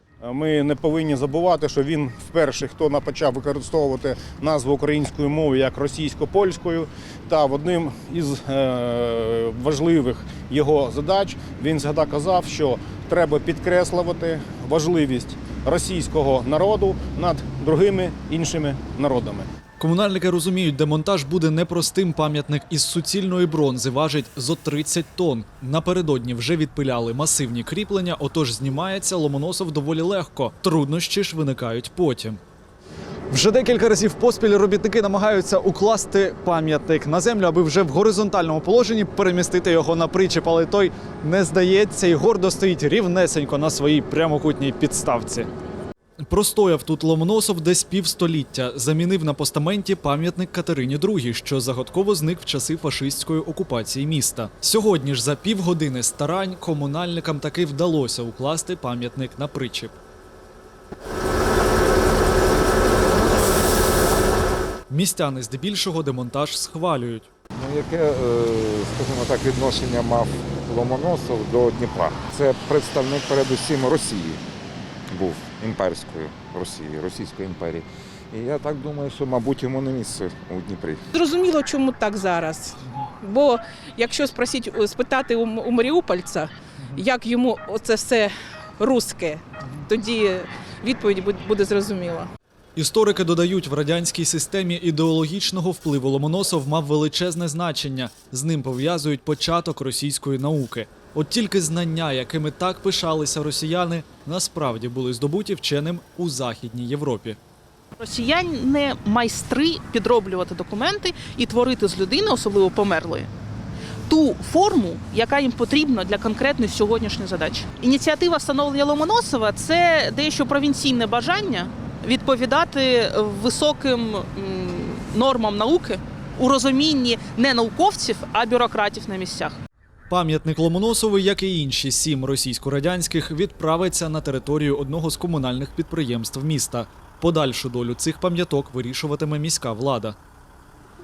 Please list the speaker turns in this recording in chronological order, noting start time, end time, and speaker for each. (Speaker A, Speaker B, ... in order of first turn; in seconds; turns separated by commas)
Speaker A: 0.2-19.5, Speaker B: 19.8-32.4, Speaker B: 33.3-45.5, Speaker B: 46.3-60.0, Speaker B: 64.9-67.3, Speaker C: 67.5-74.4, Speaker C: 75.1-81.0, Speaker D: 81.1-92.3, Speaker B: 92.7-107.4, Speaker E: 108.0-113.3, Speaker E: 114.1-129.6, Speaker B: 130.1-140.2